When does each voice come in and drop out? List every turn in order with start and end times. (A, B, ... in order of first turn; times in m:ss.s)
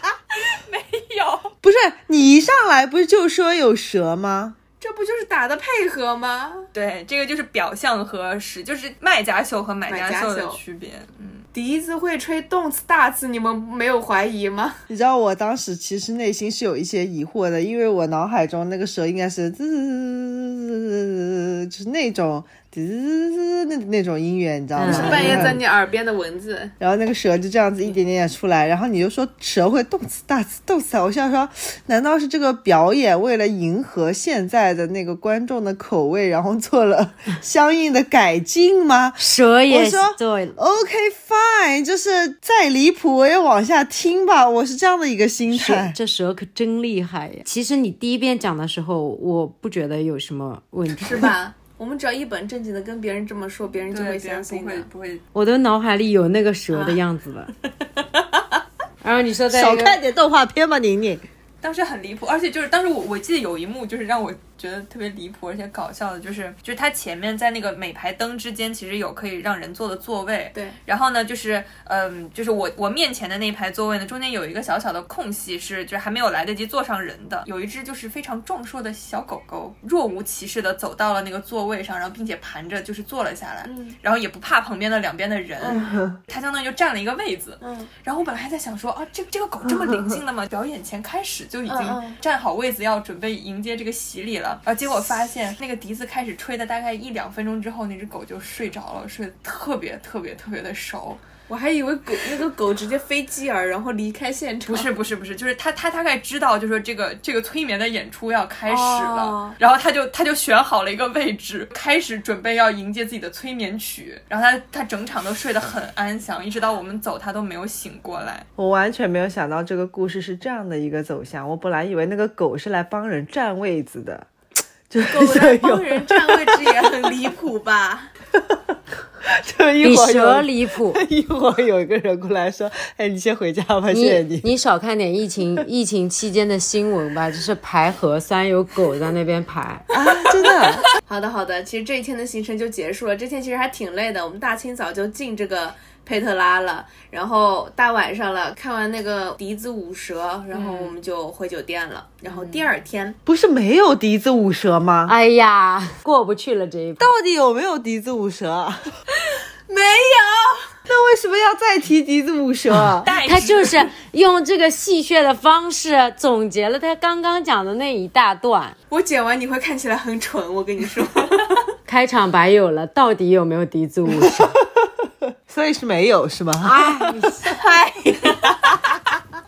0:00.4-0:01.5 A
0:01.6-0:04.6 B
0:04.8-0:06.7 C
0:06.7-0:11.4 A
0:09.9-0:10.6 C
0:11.5-0:14.8 C
0:14.9-0:25.6 B
0:24.8-0:25.5 D
0:24.8-0:26.7 C
0:26.8-0:46.0 B
0:39.2-0:40.6 D
0:45.5-0:51.3 D
0:51.0-0:54.9 C
0:53.9-0:55.2 A
0:55.3-0:57.5 D
0:56.7-0:57.0 C
0:59.0-1:00.0 D
0:59.5-1:01.2 B
1:01.6-1:41.2 A
1:23.6-1:24.0 C
1:25.7-1:26.2 B
1:27.6-1:27.9 C
1:31.7-1:32.2 C
1:41.5-1:44.9 C
1:44.7-1:58.4 A
1:48.7-1:49.6 C
1:58.6-2:04.3 B
2:04.9-2:07.1 B
2:05.0-2:08.1 C
2:08.4-2:14.5 B
2:09.8-2:11.0 D
2:13.9-2:19.8 D
2:19.9-2:20.9 B
2:21.0-2:33.2 C
2:30.5-2:30.9 A
2:32.3-2:32.7 A
2:33.2-2:35.1 B
2:35.0-2:37.0 D
2:37.0-2:39.0 B
2:39.7-2:40.7 C
2:40.9-2:43.0 B
2:42.7-2:48.8 D
2:43.0-2:43.9 A
2:48.9-2:51.6 C
2:51.8-2:54.6 D
2:54.1-2:54.9 B
2:55.5-2:57.4 B
2:56.6-2:57.5 D
2:57.4-2:58.7 C
2:58.4-2:59.0 B